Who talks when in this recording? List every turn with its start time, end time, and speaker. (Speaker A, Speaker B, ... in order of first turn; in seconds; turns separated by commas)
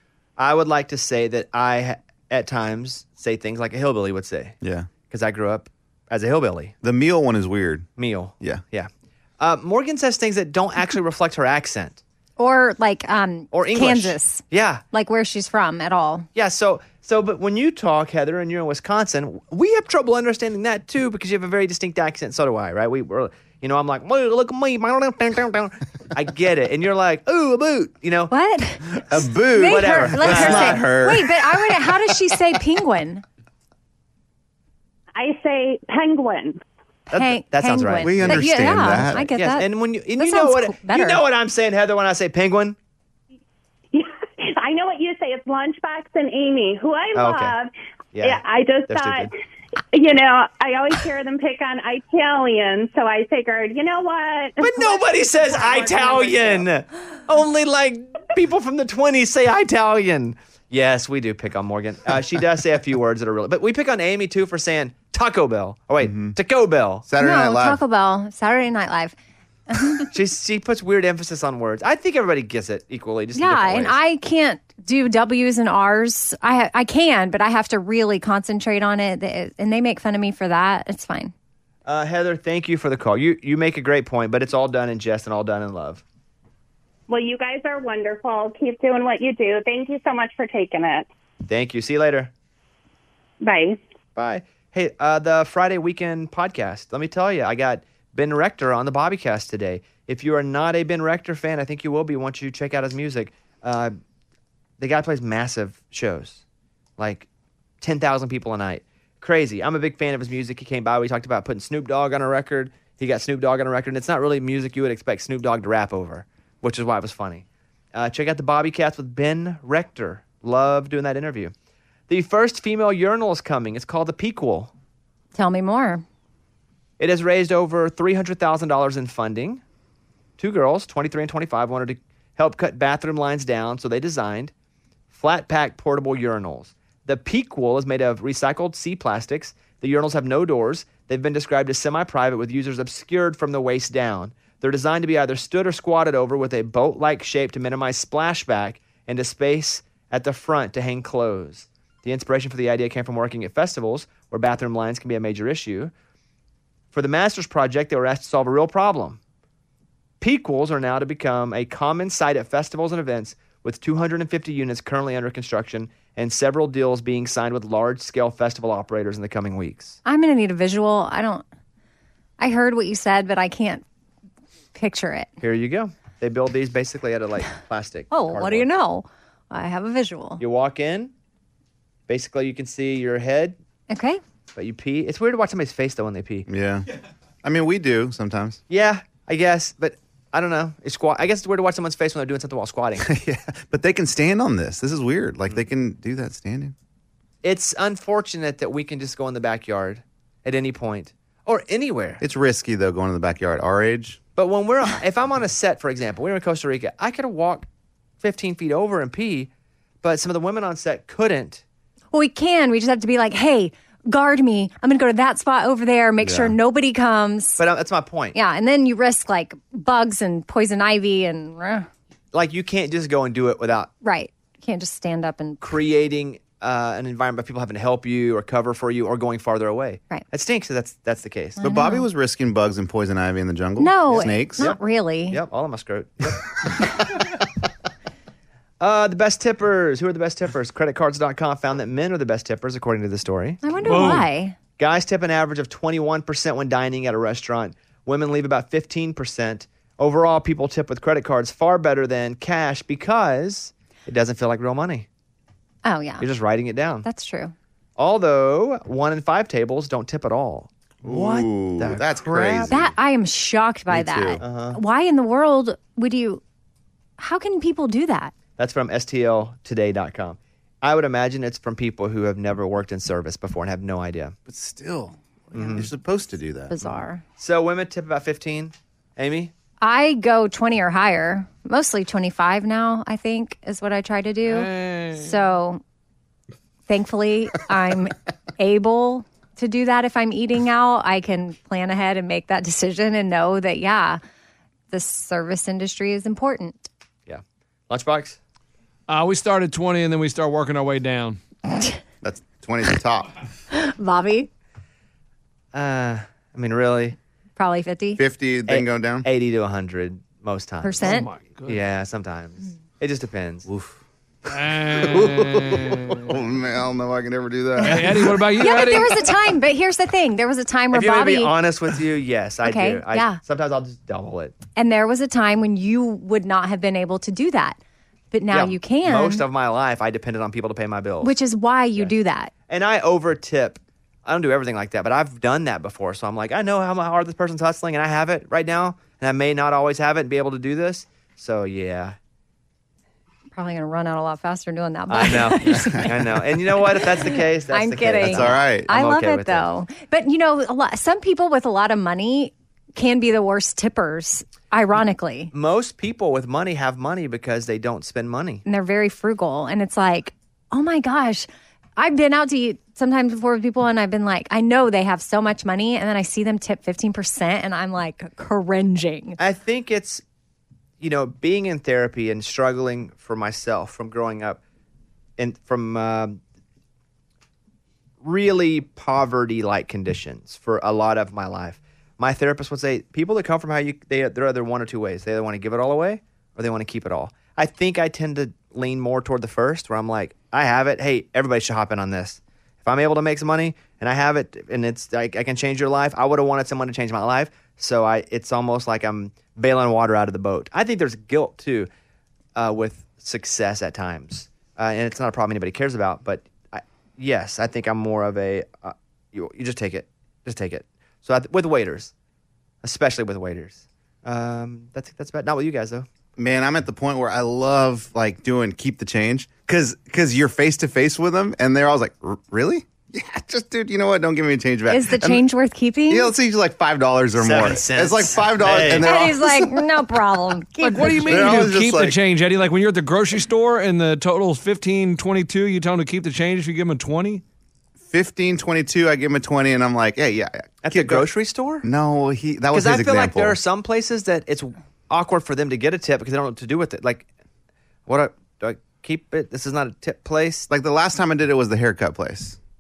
Speaker A: 0.4-4.6, Speaker B: 4.6-4.9, Speaker A: 5.1-6.8, Speaker B: 6.8-7.9, Speaker A: 8.0-12.0, Speaker C: 12.4-16.3, Speaker A: 13.5-14.8, Speaker A: 16.3-28.3, Speaker C: 28.3-33.2, Speaker B: 28.9-31.7, Speaker A: 29.6-31.0, Speaker D: 35.1-36.6, Speaker C: 37.1-41.2, Speaker A: 37.1-42.8, Speaker B: 38.0-39.3, Speaker D: 43.9-49.3, Speaker A: 47.1-47.5, Speaker A: 48.1-49.3, Speaker D: 49.9-56.7, Speaker A: 54.6-67.0, Speaker B: 66.0-66.4, Speaker B: 67.1-67.8, Speaker C: 67.2-69.2, Speaker C: 69.7-70.1, Speaker A: 70.1-74.0, Speaker C: 73.3-81.3, Speaker A: 81.9-86.0, Speaker D: 87.1-91.1, Speaker A: 91.5-92.3, Speaker D: 93.4-93.8, Speaker A: 94.2-104.0, Speaker A: 104.8-106.4, Speaker A: 107.0-107.3, Speaker A: 107.8-121.5, Speaker A: 122.1-124.7, Speaker C: 125.3-126.0, Speaker A: 127.0-129.6, Speaker A: 130.4-134.5, Speaker A: 135.1-155.9, Speaker A: 156.9-159.2, Speaker A: 160.2-170.0, Speaker C: 170.1-171.4, Speaker C: 172.4-173.8, Speaker C: 174.8-175.3, Speaker A: 175.4-178.7, Speaker C: 178.1-180.4, Speaker A: 180.4-181.1, Speaker A: 182.1-183.6, Speaker C: 183.9-184.2, Speaker A: 184.6-186.5, Speaker B: 186.5-186.9, Speaker B: 187.4-188.6, Speaker A: 188.7-193.1, Speaker B: 193.0-196.7, Speaker A: 197.4-202.2, Speaker B: 202.2-204.2, Speaker A: 204.4-207.7, Speaker A: 208.2-209.5, Speaker A: 210.0-211.6, Speaker C: 212.1-217.6, Speaker B: 216.2-216.5, Speaker A: 217.6-218.4, Speaker C: 218.3-221.9, Speaker A: 222.3-223.9, Speaker C: 224.0-225.6, Speaker A: 225.6-231.6, Speaker C: 231.6-232.1, Speaker B: 231.6-234.7, Speaker C: 233.8-235.4, Speaker A: 234.2-236.8, Speaker A: 238.8-244.1, Speaker C: 243.6-244.6, Speaker E: 243.8-244.2, Speaker A: 244.8-255.1, Speaker C: 255.8-256.3, Speaker A: 256.2-257.1, Speaker C: 257.0-257.5, Speaker A: 258.0-262.8, Speaker B: 261.0-262.9, Speaker C: 262.7-266.4, Speaker B: 263.9-264.4, Speaker A: 264.4-264.8, Speaker C: 267.2-268.3, Speaker A: 268.6-274.4, Speaker B: 274.5-276.9, Speaker A: 275.5-275.9, Speaker C: 276.7-277.2, Speaker A: 277.4-279.5, Speaker C: 279.8-285.8, Speaker E: 284.5-285.4, Speaker C: 286.9-294.2, Speaker C: 294.9-296.8, Speaker A: 297.3-298.4, Speaker E: 299.1-301.4, Speaker C: 301.7-302.0, Speaker B: 302.2-303.3, Speaker C: 303.7-304.5, Speaker A: 305.7-307.2, Speaker C: 307.6-308.2, Speaker B: 308.2-309.3, Speaker A: 308.7-313.7, Speaker C: 310.8-311.3, Speaker E: 311.0-311.8, Speaker B: 313.7-314.0, Speaker E: 314.5-316.3, Speaker B: 314.9-318.4, Speaker E: 317.8-319.2, Speaker C: 318.6-321.5, Speaker A: 320.9-324.6, Speaker C: 322.6-323.4, Speaker C: 324.8-327.8, Speaker C: 328.3-329.4, Speaker A: 328.5-331.3, Speaker C: 331.2-332.5, Speaker A: 332.7-342.2, Speaker C: 343.5-355.5, Speaker A: 345.1-349.7, Speaker B: 348.2-348.9, Speaker A: 355.5-358.6, Speaker C: 358.6-369.4, Speaker A: 369.4-370.2, Speaker A: 371.0-374.6, Speaker A: 375.4-376.4, Speaker A: 378.2-401.9, Speaker A: 402.6-412.1, Speaker A: 412.8-416.1, Speaker B: 416.4-425.4, Speaker C: 424.9-426.3, Speaker B: 426.1-429.8, Speaker A: 427.4-429.1, Speaker C: 429.0-431.5, Speaker E: 430.8-437.4, Speaker B: 431.2-432.2, Speaker B: 438.1-441.3, Speaker A: 440.8-441.9, Speaker B: 441.8-443.6, Speaker A: 442.7-447.3, Speaker A: 448.1-450.7, Speaker B: 450.7-452.6